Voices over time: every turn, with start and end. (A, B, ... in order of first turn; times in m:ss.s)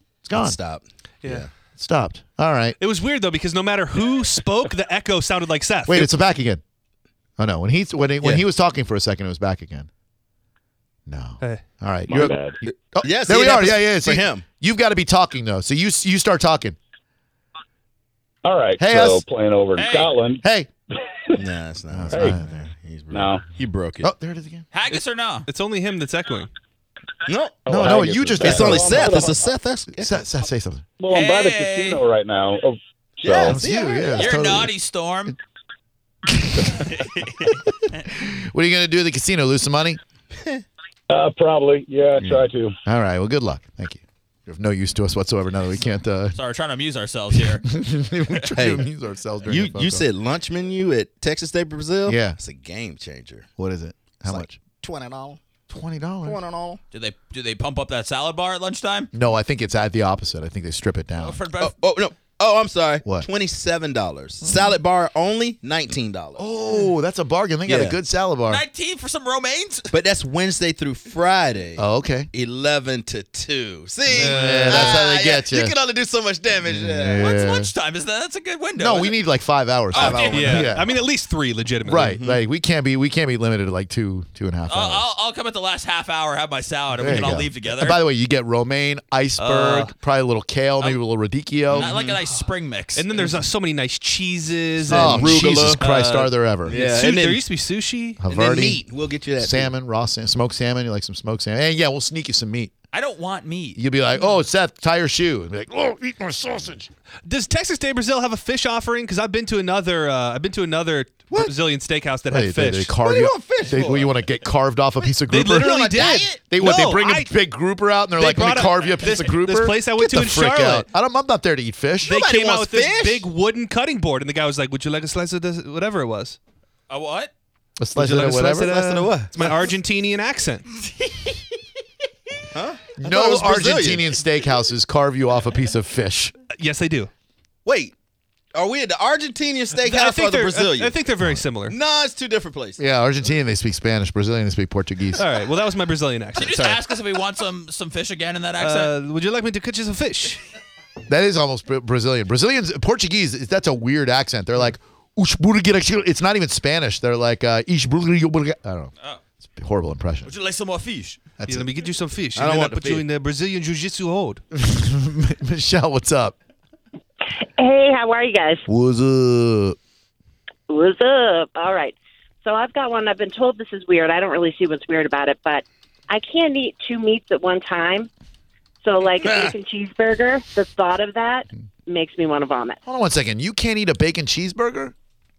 0:00.2-0:00.6 A
0:00.3-0:01.5 B
0:01.8-0:02.8 A
0:02.8-0:06.1 C
0:05.9-0:06.6 A
0:07.4-0:09.9 A
0:11.1-0:16.8 A
0:12.1-0:12.5 D
0:12.6-0:14.4 B
0:18.4-0:20.4 D
0:18.8-0:19.2 A
0:19.8-0:20.1 E
0:20.4-0:20.7 A
0:21.3-0:24.1 B
0:21.9-0:22.7 A
0:22.1-0:22.4 D
0:23.1-0:23.4 D
0:24.0-0:24.6 A
0:24.7-0:25.5 E
0:24.9-0:26.5 C
0:27.3-0:30.2 B
0:27.6-0:29.5 D
0:27.7-0:29.2 A
0:29.9-0:30.8 A
0:31.0-0:33.6 D
0:31.1-0:32.0 E
0:33.2-0:34.4 B
0:33.4-0:34.7 A
0:34.1-0:35.4 E
0:36.4-0:36.8 A
0:36.8-0:38.0 E
0:38.0-0:40.0 A
0:40.4-0:40.6 B
0:41.1-0:42.8 D
0:42.2-0:46.4 A
0:46.3-0:47.6 E
0:47.3-0:50.0 A
0:48.5-0:48.8 B
0:49.4-0:53.5 B
0:52.1-0:52.4 A
0:53.6-0:54.6 A
0:54.2-0:55.4 B
0:55.7-0:56.4 A
0:56.2-0:56.8 B
0:56.9-0:59.1 E
0:59.1-1:01.4 A
1:01.2-1:01.7 E
1:01.6-1:06.4 B
1:04.4-1:04.7 A
1:06.4-1:08.6 A
1:07.6-1:08.0 B
1:08.5-1:09.9 E
1:09.9-1:17.3 B
1:11.8-1:12.3 A
1:14.1-1:15.7 A
1:14.2-1:14.9 C
1:16.6-1:17.7 A
1:17.2-1:19.1 E
1:18.8-1:20.9 A
1:19.9-1:20.6 E
1:19.9-1:20.8 B
1:20.3-1:22.2 C
1:21.8-1:25.1 A
1:21.9-1:22.4 B
1:24.7-1:28.0 E
1:27.0-1:31.9 A
1:29.4-1:29.9 E
1:31.7-1:33.0 E
1:31.7-1:32.2 B
1:32.9-1:38.2 C
1:34.8-1:35.8 B
1:34.9-1:36.8 A
1:36.6-1:37.5 B
1:38.2-1:38.8 A
1:38.2-1:39.7 B
1:39.4-1:42.7 A
1:42.9-1:43.8 E
1:43.8-1:46.9 A
1:47.2-1:53.0 C
1:52.3-1:55.9 A
1:53.0-1:54.2 B
1:55.3-1:57.3 C
1:55.4-1:56.5 B
1:56.5-2:02.2 A
1:58.2-2:00.9 C
2:02.0-2:06.4 C
2:02.1-2:03.3 B
2:06.9-2:07.3 E
2:07.8-2:09.0 A
2:08.0-2:09.5 B
2:08.2-2:10.6 C
2:11.0-2:11.3 E
2:12.5-2:14.1 B
2:13.0-2:16.3 A
2:16.5-2:17.1 C
2:17.6-2:17.9 B
2:18.5-2:21.0 B
2:19.8-2:21.8 C
2:21.6-2:22.8 B
2:22.8-2:25.2 A
2:25.1-2:26.9 C
2:26.4-2:28.9 E
2:28.6-2:30.4 C
2:31.1-2:38.9 A
2:39.5-2:40.3 A
2:40.2-2:41.2 E
2:41.4-2:41.7 A
2:41.5-2:44.4 C
2:42.3-2:43.1 B
2:44.5-2:46.3 A
2:47.4-2:48.6 F
2:48.7-2:49.8 A
2:50.7-2:58.1 F
2:58.8-3:02.8 F
3:02.8-3:04.9 A